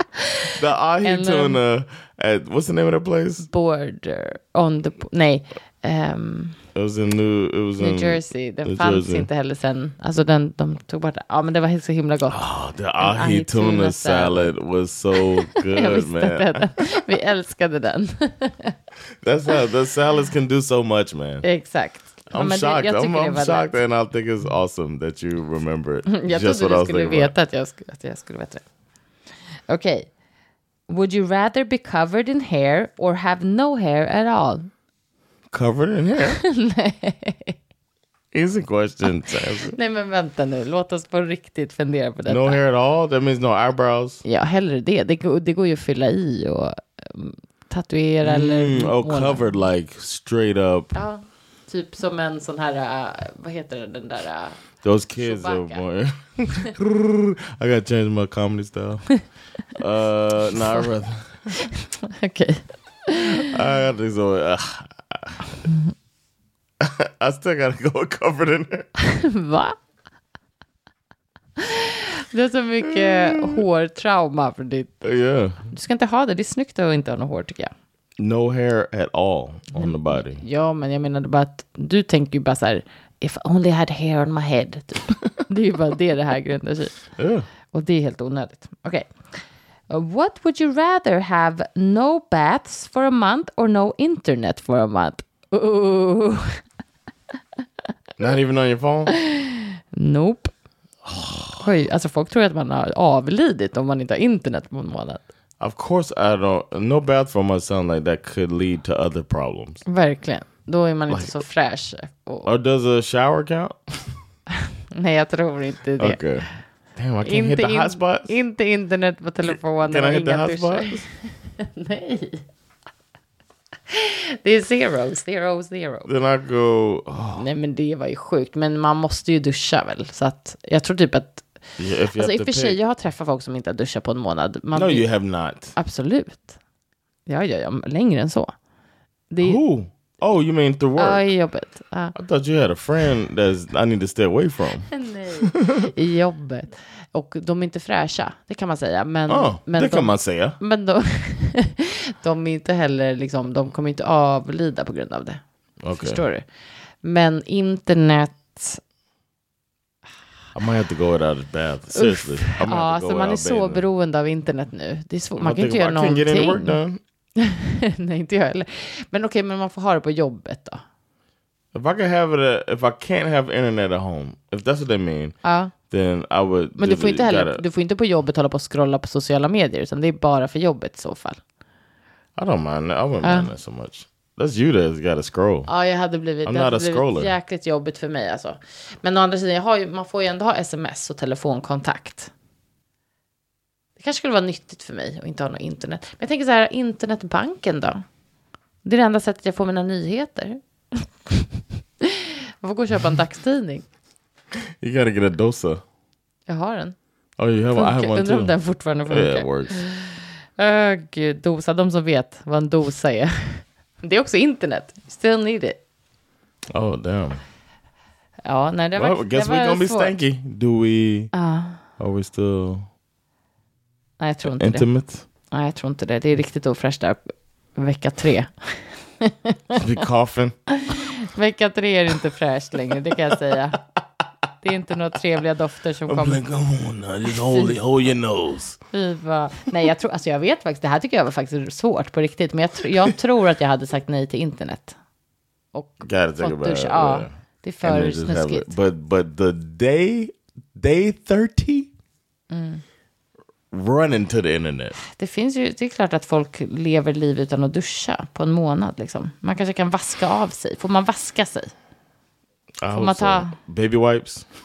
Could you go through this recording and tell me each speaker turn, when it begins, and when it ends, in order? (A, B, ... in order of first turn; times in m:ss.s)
0:00.5-0:03.5 A
0:01.0-0:01.6 B
0:03.4-0:06.6 B
0:06.7-0:09.3 A
0:07.8-0:12.4 B
0:12.3-0:16.8 A
0:13.0-0:14.5 B
0:15.1-0:18.7 B
0:19.2-0:21.4 A
0:21.4-0:23.8 B
0:22.3-0:27.3 A
0:26.1-0:28.6 B
0:29.7-0:30.1 B
0:30.9-0:34.7 B
0:35.5-0:36.4 A
0:36.3-0:37.5 B
0:38.3-0:39.8 A
0:39.4-0:42.6 B
0:42.2-0:44.2 A
0:44.2-0:49.5 B
0:48.2-0:50.9 A
0:50.9-0:54.6 B
0:54.8-0:59.1 A
0:55.2-0:55.8 B
0:59.7-1:01.5 A
1:00.5-1:00.9 B
1:01.6-1:03.3 B
1:03.1-1:05.6 A
1:06.8-1:08.9 A
1:09.0-1:09.8 B
1:11.6-1:15.0 B
1:12.9-1:13.6 A
1:15.0-1:15.6 A
1:15.7-1:17.7 B
1:18.2-1:20.4 A
1:19.7-1:27.1 B
1:27.2-1:27.5 A
1:27.7-1:29.1 B
1:29.9-1:36.4 B
1:38.2-1:39.1 A
1:39.1-1:40.5 B
1:41.0-1:41.7 A
1:41.6-1:45.2 B
1:45.6-1:49.8 A
1:49.8-1:52.5 B
1:51.1-1:51.4 A
1:52.4-1:54.2 A
1:54.9-1:56.2 B
1:56.0-1:58.4 A
1:57.2-2:02.4 B
1:59.4-2:01.0 A
2:03.9-2:06.1 B
2:06.0-2:07.5 A
2:07.3-2:11.4 B
2:11.8-2:12.8 A
2:12.1-2:15.1 B
2:14.7-2:15.7 A
2:15.7-2:16.5 B
2:17.2-2:18.5 B
2:19.3-2:19.6 B
2:19.4-2:21.3 A
2:21.0-2:22.1 B
2:22.1-2:24.9 A
2:24.9-2:36.5 B
2:25.4-2:25.9 A
2:29.3-2:30.6 A
2:35.8-2:36.2 A
2:37.0-2:38.8 B
2:40.5-2:43.8 A
2:41.9-2:46.8 B
2:45.4-2:47.0 A
2:47.4-2:50.8 B
2:51.7-2:55.4 A
2:55.4-2:55.7 B
2:55.9-2:57.6 A
2:56.8-3:01.4 B
3:02.4-3:05.7 A
3:03.2-3:03.5 B
3:05.6-3:12.3 B
3:06.4-3:07.3 A
3:14.0-3:18.0 B
3:18.8-3:21.4 B
3:22.0-3:23.8 B
3:24.8-3:25.8 A
3:26.5-3:27.0 B
3:27.4-3:29.9 A
3:27.7-3:35.8 B
3:36.7-3:37.4 A
3:38.4-3:40.2 B
3:38.9-3:41.3 A
3:41.3-3:41.8 B
3:42.0-3:42.9 A
3:44.2-3:44.9 B
3:44.4-3:45.2 A
3:45.5-3:49.7 B
3:49.7-3:50.5 A
3:50.7-3:53.8 B
3:54.6-3:56.4 B
3:56.1-3:58.8 A
3:57.3-3:57.8 B
3:58.9-4:05.0 B
4:05.7-4:08.7 B
4:06.0-4:11.9 A
4:12.5-4:12.8 B
4:13.7-4:15.0 A
4:15.0-4:21.7 B
4:22.8-4:24.5 A
4:22.9-4:23.6 B